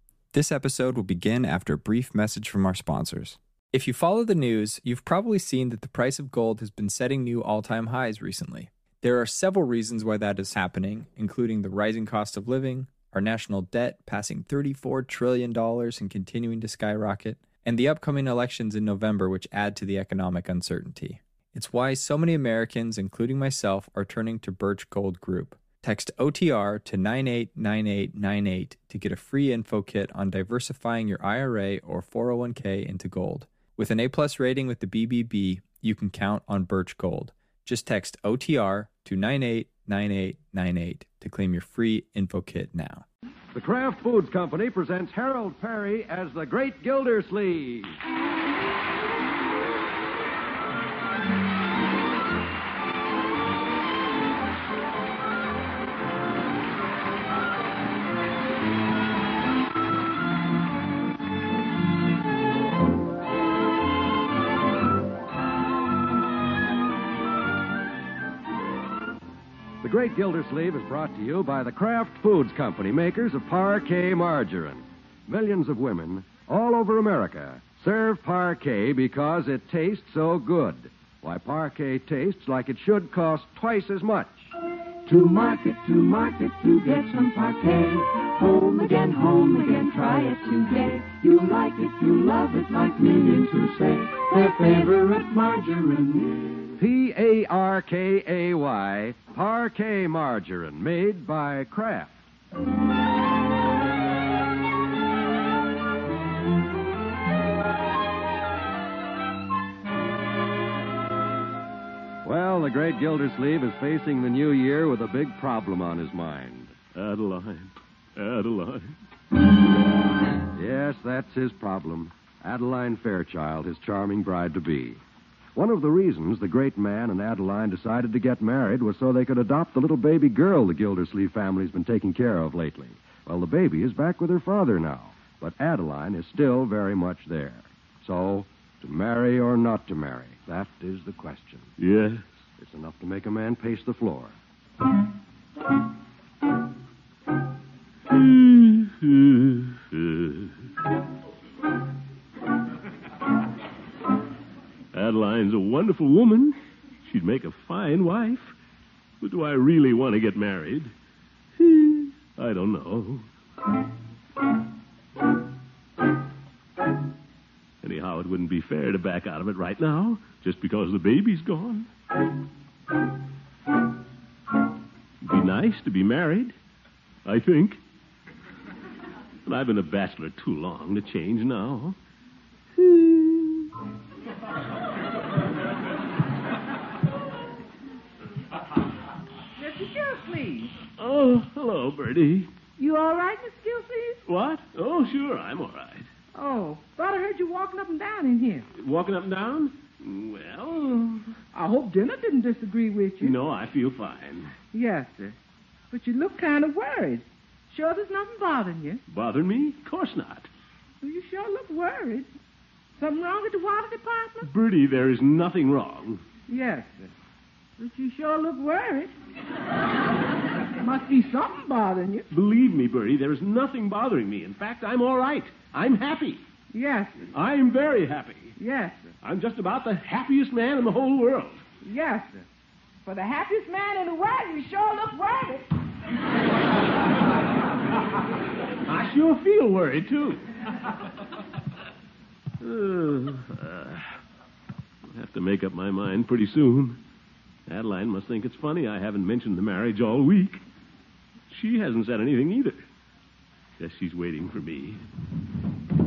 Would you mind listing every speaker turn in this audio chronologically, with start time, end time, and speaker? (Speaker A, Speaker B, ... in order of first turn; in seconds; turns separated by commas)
Speaker A: 0.3-43.0, Speaker B: 43.5-47.9, Speaker B: 69.8-84.5, Speaker C: 85.0-96.7, Speaker B: 96.8-102.2, Speaker B: 112.2-116.7, Speaker D: 117.0-118.9, Speaker B: 120.6-125.0, Speaker B: 125.5-141.7, Speaker D: 141.8-142.2, Speaker B: 142.6-144.3, Speaker D: 148.1-150.6, Speaker D: 154.9-158.6, Speaker D: 159.2-160.9, Speaker D: 161.6-163.3, Speaker D: 167.8-171.9, Speaker D: 175.2-176.5, Speaker D: 177.2-177.8, Speaker D: 179.5-182.0, Speaker D: 182.8-183.7, Speaker E: 189.6-190.7, Speaker D: 191.0-192.5, Speaker E: 192.8-194.2, Speaker D: 194.3-196.1, Speaker E: 196.3-198.7, Speaker D: 198.8-201.4, Speaker E: 201.5-203.4, Speaker D: 203.2-204.5, Speaker E: 204.7-205.3, Speaker E: 205.9-209.0, Speaker D: 209.1-210.5, Speaker E: 211.0-212.3, Speaker E: 213.0-214.5, Speaker D: 214.4-216.2, Speaker E: 216.5-217.1, Speaker E: 217.8-219.1, Speaker E: 220.8-222.3, Speaker D: 222.3-226.4, Speaker E: 226.7-227.2, Speaker D: 227.3-228.6, Speaker E: 228.6-229.1, Speaker D: 229.2-231.6, Speaker E: 231.8-232.4, Speaker E: 233.1-235.7, Speaker D: 238.9-240.4, Speaker D: 242.6-244.1, Speaker D: 245.1-247.0, Speaker D: 247.7-250.6, Speaker D: 251.5-252.8, Speaker D: 253.8-255.0